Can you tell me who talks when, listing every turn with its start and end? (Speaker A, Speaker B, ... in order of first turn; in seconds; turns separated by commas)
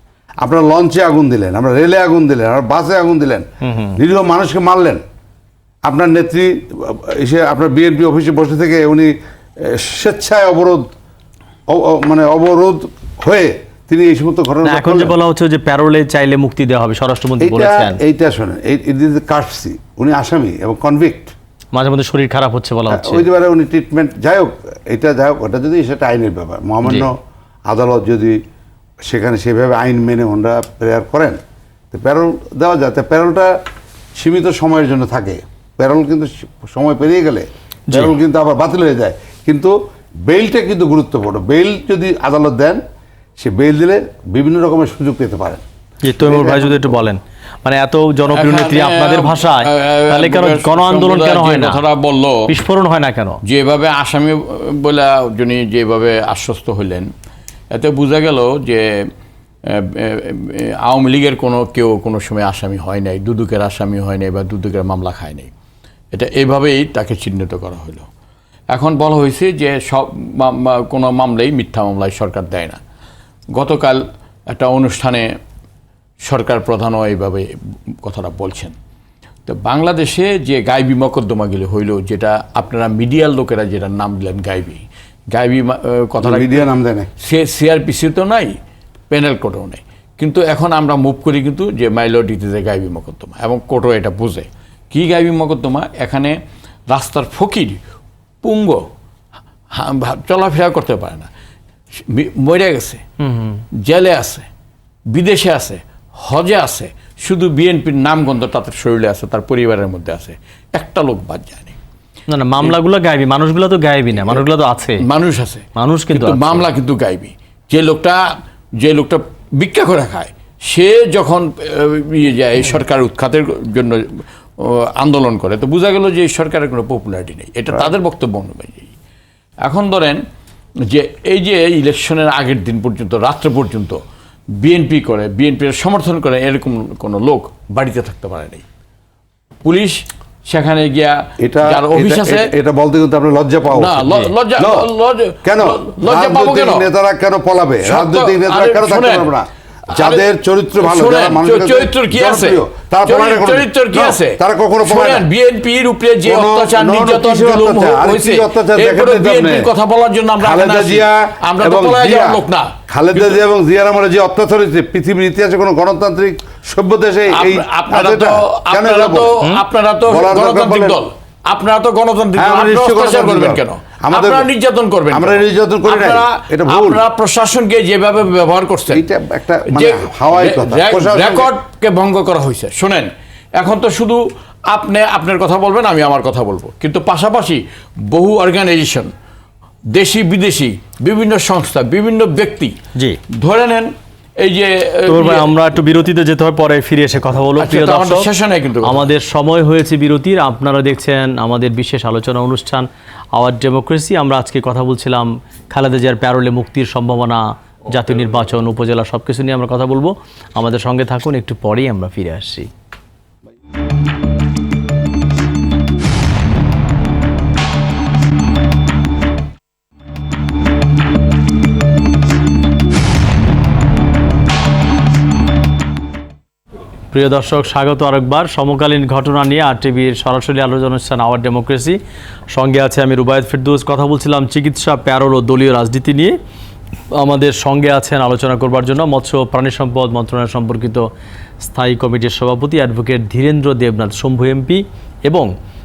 Speaker A: 0.4-5.0, Speaker B: 3.6-4.0, Speaker A: 5.8-10.8, Speaker A: 11.7-15.1, Speaker B: 14.6-18.0, Speaker A: 17.4-21.3, Speaker B: 21.7-23.2, Speaker A: 22.9-27.2, Speaker A: 27.7-28.4, Speaker A: 29.0-31.4, Speaker A: 31.9-33.5, Speaker A: 34.2-42.8, Speaker A: 43.4-45.6, Speaker B: 46.0-51.8, Speaker A: 46.2-46.9, Speaker C: 48.3-52.5, Speaker B: 52.5-53.4, Speaker C: 53.4-57.1, Speaker C: 57.7-59.1, Speaker C: 59.6-65.5, Speaker C: 66.1-68.1, Speaker C: 68.7-72.8, Speaker C: 73.5-75.3, Speaker C: 76.2-78.7, Speaker C: 79.5-86.7, Speaker A: 86.2-87.1, Speaker C: 87.2-88.5, Speaker C: 89.1-96.4, Speaker C: 96.9-97.8, Speaker C: 98.4-98.9, Speaker C: 99.7-101.3, Speaker C: 102.1-103.0, Speaker B: 103.2-103.6, Speaker C: 103.7-104.5, Speaker C: 105.1-111.8, Speaker B: 112.3-115.0, Speaker C: 115.0-128.9, Speaker B: 115.8-116.6, Speaker C: 129.6-130.2, Speaker C: 130.8-134.0, Speaker C: 134.6-138.6, Speaker C: 139.6-142.5, Speaker A: 141.4-144.9, Speaker C: 143.7-146.9, Speaker A: 145.4-155.2, Speaker C: 147.8-149.3, Speaker C: 149.9-150.2, Speaker C: 150.8-163.4, Speaker A: 156.2-159.7, Speaker A: 160.4-169.4, Speaker C: 167.3-179.0, Speaker A: 170.1-171.0, Speaker A: 172.3-174.5, Speaker A: 175.1-177.0, Speaker A: 178.9-181.5, Speaker C: 179.7-189.1, Speaker C: 189.9-192.7, Speaker C: 193.3-195.5, Speaker B: 195.1-198.3, Speaker C: 197.6-199.1, Speaker B: 198.8-212.7, Speaker B: 227.1-232.0, Speaker B: 232.5-236.3, Speaker B: 237.2-241.1, Speaker B: 241.6-245.5